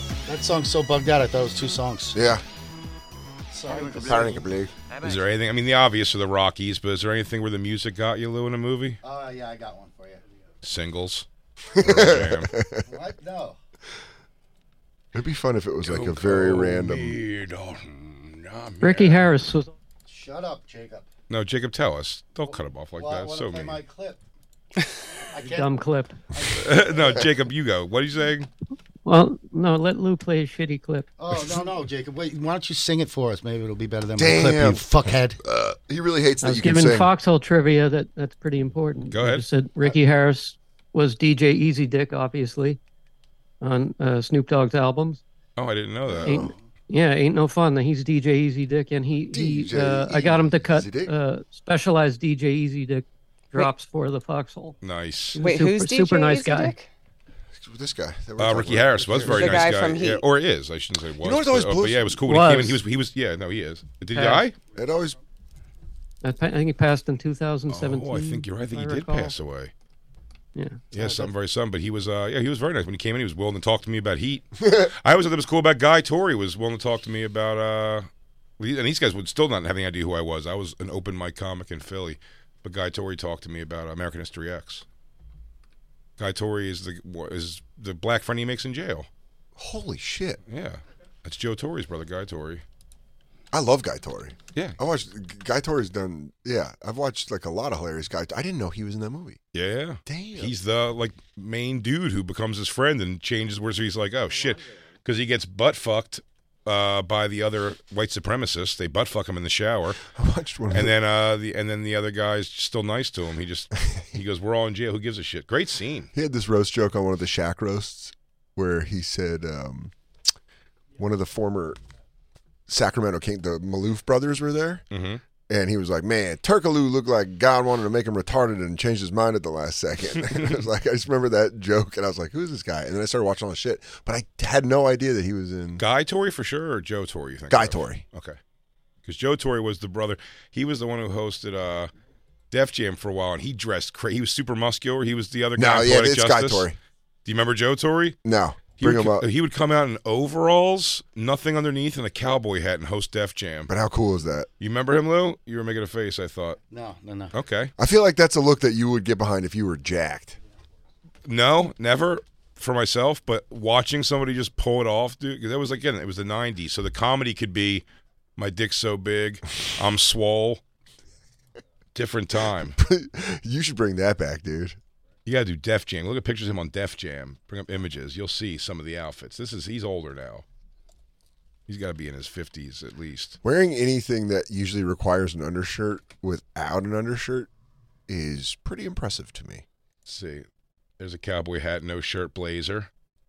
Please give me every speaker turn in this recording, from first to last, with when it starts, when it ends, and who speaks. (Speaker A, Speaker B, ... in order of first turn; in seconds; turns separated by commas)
Speaker A: 0.2-2.2, Speaker B: 2.1-2.4, Speaker A: 3.5-4.5, Speaker B: 4.0-4.7, Speaker C: 5.0-9.0, Speaker A: 9.0-10.2, Speaker C: 10.6-12.5, Speaker B: 11.7-12.9, Speaker A: 12.8-13.6, Speaker B: 15.1-17.2, Speaker C: 15.8-19.3, Speaker D: 18.8-19.7, Speaker A: 20.1-21.1, Speaker C: 21.3-23.8, Speaker A: 22.4-24.2, Speaker A: 25.3-25.8, Speaker D: 25.4-26.2, Speaker A: 26.3-27.2, Speaker C: 26.5-28.5, Speaker D: 29.0-31.1, Speaker A: 31.2-35.4, Speaker B: 34.2-34.9, Speaker B: 35.4-37.1, Speaker D: 36.4-42.8, Speaker C: 39.1-39.4, Speaker D: 43.6-45.2, Speaker C: 45.5-46.4, Speaker B: 46.1-46.5, Speaker D: 46.2-54.8, Speaker B: 49.3-51.1, Speaker C: 54.8-55.4, Speaker D: 55.3-56.7, Speaker E: 55.4-56.9, Speaker B: 57.5-59.7, Speaker C: 58.4-64.5, Speaker D: 59.2-59.6, Speaker E: 59.2-60.2, Speaker B: 61.2-62.2, Speaker D: 62.2-62.8, Speaker D: 64.1-64.5, Speaker B: 64.7-65.2, Speaker D: 66.2-69.3, Speaker C: 67.7-69.7, Speaker D: 70.5-70.8, Speaker C: 70.9-84.8, Speaker B: 74.6-74.9, Speaker C: 86.2-89.1, Speaker B: 89.5-90.4, Speaker C: 90.4-92.6, Speaker B: 93.5-99.4, Speaker C: 99.5-110.0, Speaker B: 100.0-100.5, Speaker B: 110.0-110.9, Speaker C: 110.7-116.1, Speaker B: 116.1-119.9, Speaker B: 121.0-121.8, Speaker B: 122.7-124.8, Speaker C: 124.9-125.2, Speaker B: 125.5-135.8, Speaker C: 130.1-130.6, Speaker C: 135.8-138.4, Speaker B: 137.5-138.0, Speaker C: 139.1-141.9, Speaker C: 142.5-146.7, Speaker B: 145.6-146.8, Speaker C: 147.2-148.2, Speaker B: 148.2-149.3, Speaker C: 148.8-153.7, Speaker B: 153.7-154.5, Speaker C: 154.6-156.6, Speaker A: 156.7-157.3, Speaker C: 157.3-157.7, Speaker B: 157.8-160.4, Speaker C: 161.2-167.8, Speaker C: 168.4-170.6, Speaker C: 171.9-172.8, Speaker B: 172.5-174.8, Speaker C: 175.2-180.4, Speaker C: 181.7-183.4, Speaker B: 183.4-187.5, Speaker B: 188.1-189.6, Speaker C: 190.1-190.4, Speaker C: 191.0-192.9